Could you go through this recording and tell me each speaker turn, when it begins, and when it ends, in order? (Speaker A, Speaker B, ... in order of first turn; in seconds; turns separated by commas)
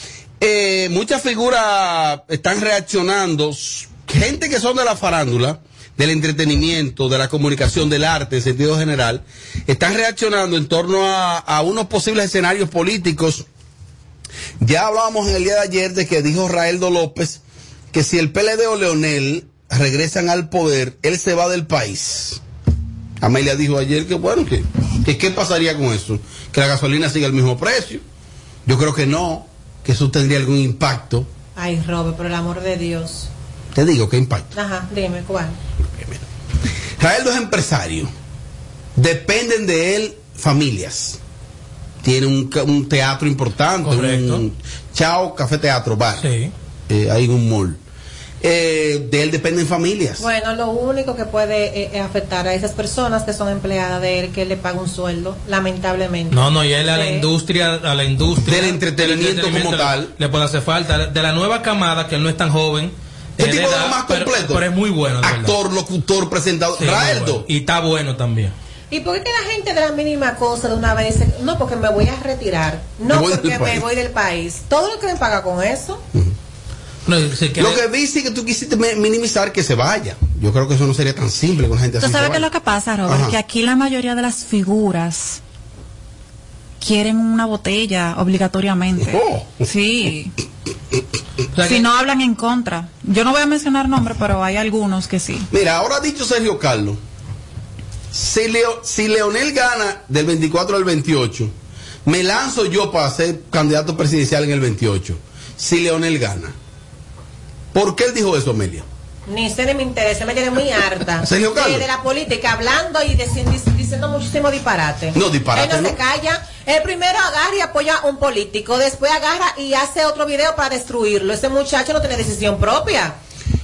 Speaker A: 0.4-13.4, Speaker A: 14.6-17.4, Speaker A: 17.9-22.4, Speaker A: 23.2-28.0, Speaker A: 28.6-31.3, Speaker B: 31.6-33.3, Speaker A: 33.7-34.5, Speaker B: 34.5-35.6, Speaker A: 37.0-38.1, Speaker A: 39.0-41.2, Speaker A: 42.0-46.3, Speaker C: 43.8-44.4, Speaker C: 46.2-46.5, Speaker A: 46.9-47.8, Speaker A: 48.4-50.3, Speaker B: 50.2-57.2, Speaker C: 56.3-65.5, Speaker A: 58.4-60.1, Speaker A: 63.4-64.6, Speaker A: 65.2-67.4, Speaker C: 66.8-68.5, Speaker B: 68.9-76.0, Speaker A: 73.1-73.8, Speaker C: 77.0-77.8, Speaker A: 77.6-82.4, Speaker D: 82.0-85.4, Speaker A: 83.1-83.3, Speaker D: 86.8-90.3, Speaker A: 89.0-89.7, Speaker C: 91.5-91.8, Speaker D: 91.6-95.5, Speaker A: 95.5-97.0, Speaker A: 98.1-101.5, Speaker A: 102.0-106.5, Speaker A: 107.7-108.8, Speaker B: 109.3-123.1, Speaker A: 111.2-111.9, Speaker A: 115.1-116.0